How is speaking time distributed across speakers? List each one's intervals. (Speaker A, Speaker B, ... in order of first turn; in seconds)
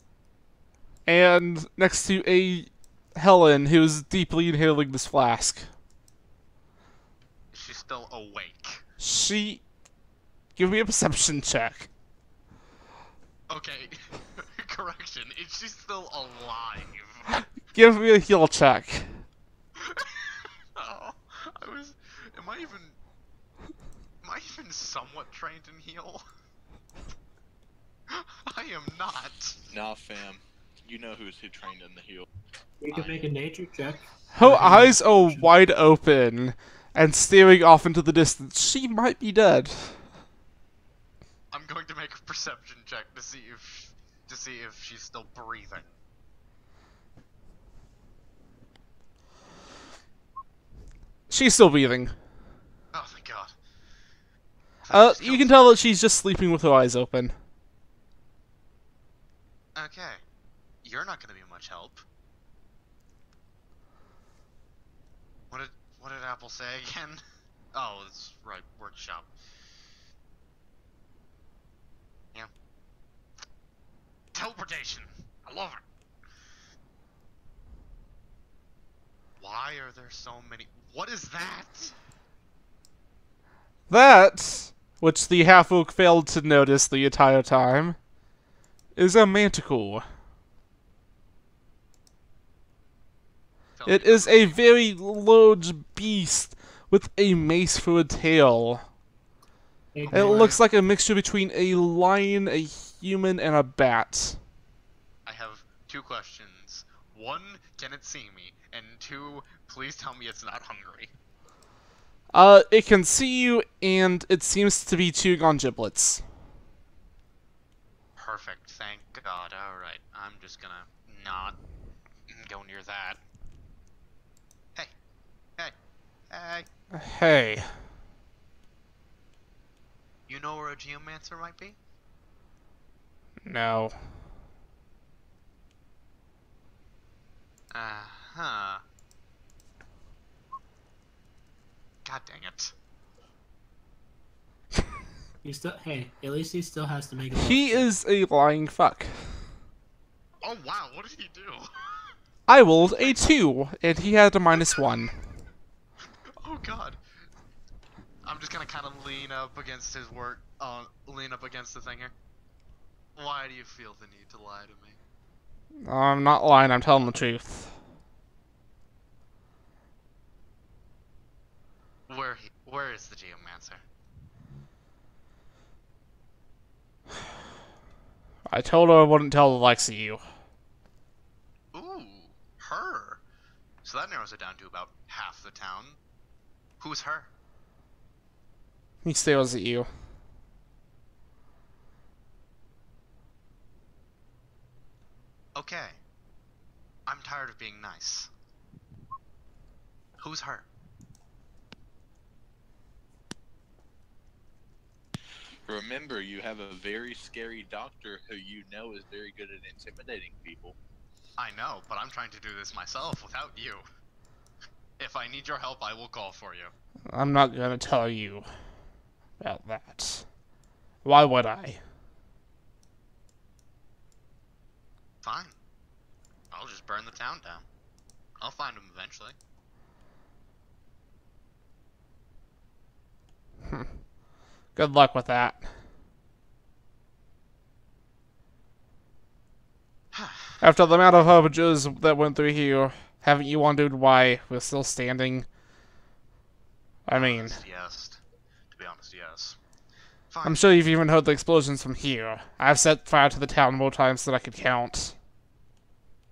Speaker A: 1.1-5.7, 9.0-9.6, 10.6-11.9, 17.7-19.2, 34.3-40.0, 51.3-52.1, 54.9-57.4, 83.9-88.0, 89.0-90.0, 93.9-98.8, 100.1-104.4, 112.3-116.2, 126.9-127.7, 133.4-133.9, 147.3-149.4, 152.5-155.1, 165.8-167.8, 178.5-180.2, 189.0-189.9, 217.1-218.5, 219.4-220.2, 221.0-221.8, 233.6-233.9, 234.7-235.7, 240.6-245.5, 247.1-247.6, 250.4-255.2
Speaker B: 7.5-8.8, 13.5-17.3, 19.8-23.0, 24.2-26.2, 28.1-29.6, 41.5-45.9, 52.9-53.5, 54.8-55.8, 59.7-60.2, 60.8-62.0, 65.5-67.2, 67.7-69.3, 74.3-75.8, 79.4-81.9, 93.8-94.6, 100.1-100.6, 105.2-111.1, 118.2-121.6, 122.3-123.2, 126.3-126.7, 130.3-131.8, 137.7-138.8, 142.0-142.7, 150.4-152.1, 152.8-153.2, 156.4-157.0, 158.2-162.1, 163.2-165.0, 172.1-173.8, 181.7-183.2, 183.8-186.0, 186.8-187.3, 195.5-196.0, 197.1-198.3, 200.2-200.7, 211.4-213.8, 215.0-216.7, 225.2-225.5, 226.5-227.7, 228.4-229.3, 240.1-240.6, 247.1-249.6, 250.3-250.7
Speaker C: 29.7-32.2, 205.7-210.8
Speaker D: 32.8-35.4, 99.9-100.6, 145.4-147.9